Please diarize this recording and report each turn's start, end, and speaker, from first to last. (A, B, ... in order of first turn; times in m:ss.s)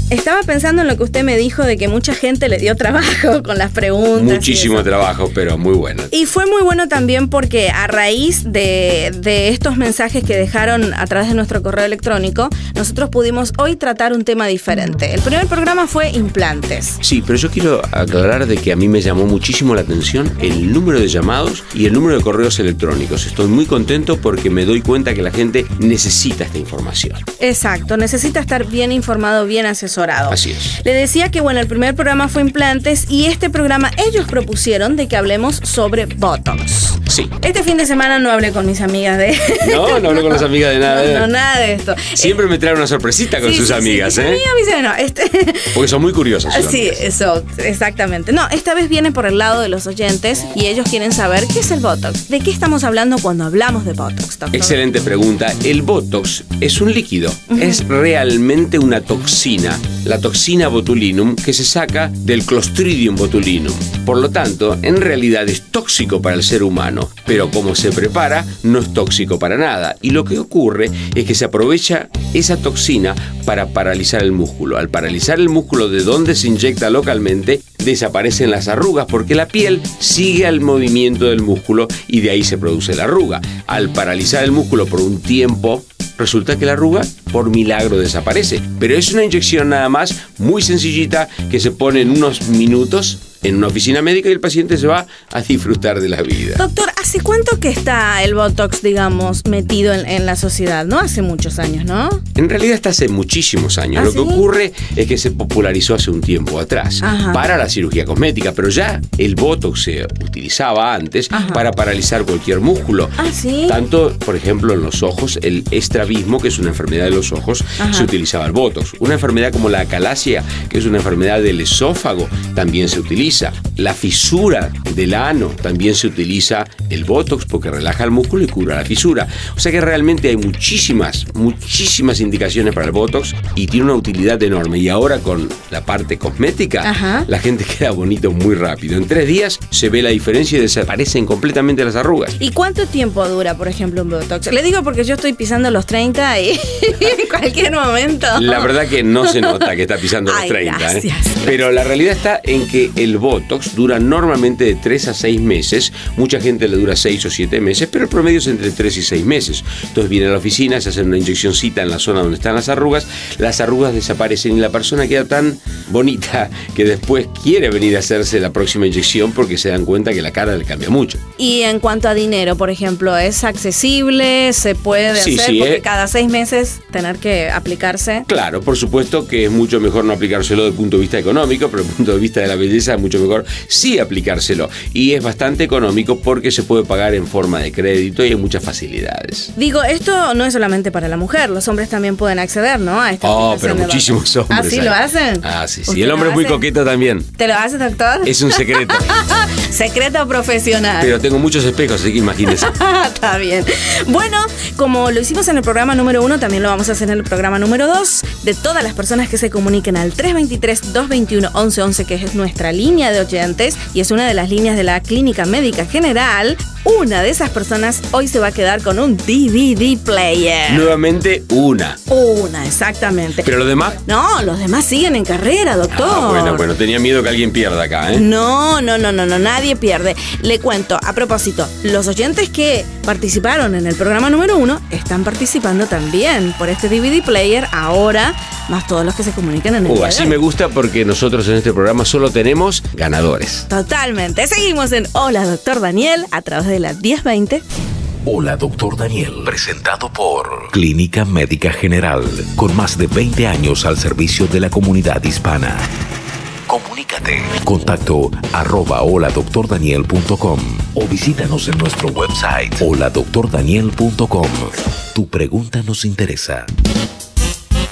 0:00.1-0:04.9 A
0:04.1-0:06.1 B
0:06.1-0:17.0 A
0:17.0-0:27.2 B
0:27.4-0:42.4 A
0:30.3-0:30.8 B
0:37.1-0:37.3 B
0:39.6-0:41.3 B
0:42.2-0:44.4 B
0:43.4-0:45.9 A
0:45.7-0:47.0 B
0:46.5-0:54.8 A
0:54.5-1:36.6 B
0:57.5-0:57.8 A
1:36.6-1:42.2 A
1:42.4-2:22.4 B
1:44.0-1:44.4 A
1:47.0-1:47.4 A
1:51.3-1:51.6 A
1:53.2-1:53.8 A
1:57.8-1:58.1 A
2:16.8-2:17.3 A
2:22.4-2:28.7 A
2:28.4-2:51.2 B
2:29.2-2:29.6 A
2:30.3-2:31.6 A
2:51.4-2:58.3 A
2:55.1-2:55.8 B
2:58.3-3:09.5 B
3:09.6-3:16.6 A
3:13.2-3:17.3 B
3:17.4-3:21.2 A
3:18.2-3:19.1 B
3:21.0-3:22.7 B
3:22.5-3:40.9 A
3:40.7-3:42.0 B
3:42.1-3:43.5 A
3:43.4-3:44.0 B
3:44.1-3:46.6 A
3:45.9-3:48.3 B
3:48.2-4:00.4 A
3:59.8-4:03.7 B
4:03.7-4:07.6 A
4:08.3-4:15.9 C
4:16.7-4:26.7 C